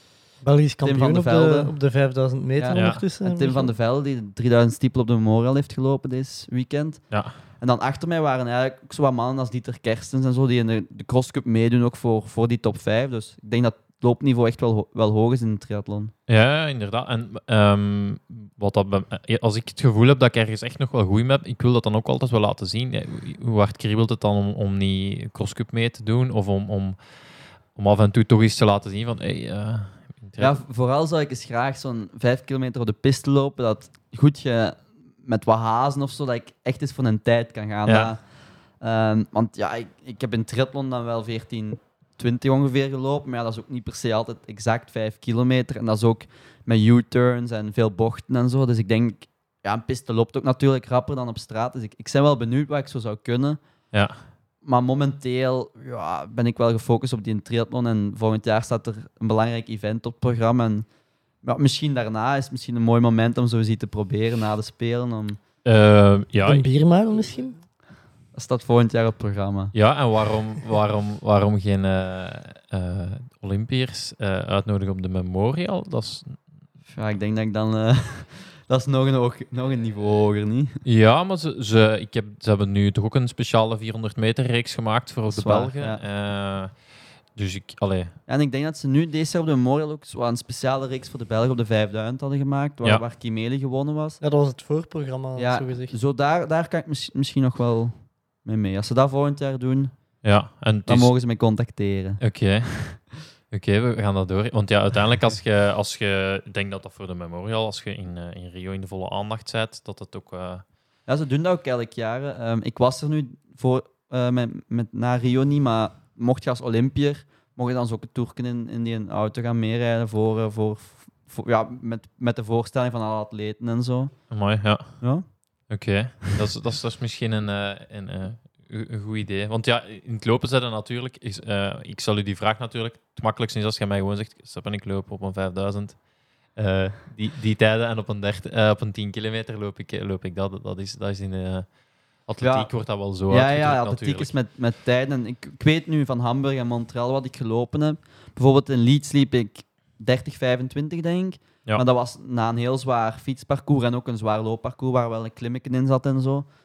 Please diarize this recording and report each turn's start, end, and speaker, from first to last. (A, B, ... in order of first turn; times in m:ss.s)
0:00.4-0:03.7 A
0:00.8-0:01.8 B
0:02.6-0:16.1 B
0:02.7-0:03.0 C
0:07.1-0:07.4 C
0:16.3-0:27.0 C
0:27.7-0:30.6 C
0:30.4-0:38.2 B
0:37.9-0:38.1 C
0:38.8-0:53.6 B
0:53.9-0:54.3 C
0:54.6-1:00.9 B
1:01.4-1:05.4 B
1:05.6-1:06.7 C
1:06.5-1:07.6 A
1:08.3-1:09.7 B
1:09.7-1:16.4 C
1:16.9-1:20.8 B
1:20.8-1:28.2 C
1:25.3-1:26.0 B
1:28.3-1:34.2 B
1:34.2-1:36.0 A
1:35.4-1:40.0 B
1:40.2-1:41.2 C
1:40.9-1:42.2 B
1:42.2-1:50.6 C
1:51.1-2:04.4 B
2:04.3-2:05.1 C
2:05.0-2:05.2 B
2:05.7-2:24.3 C
2:22.4-2:36.5 B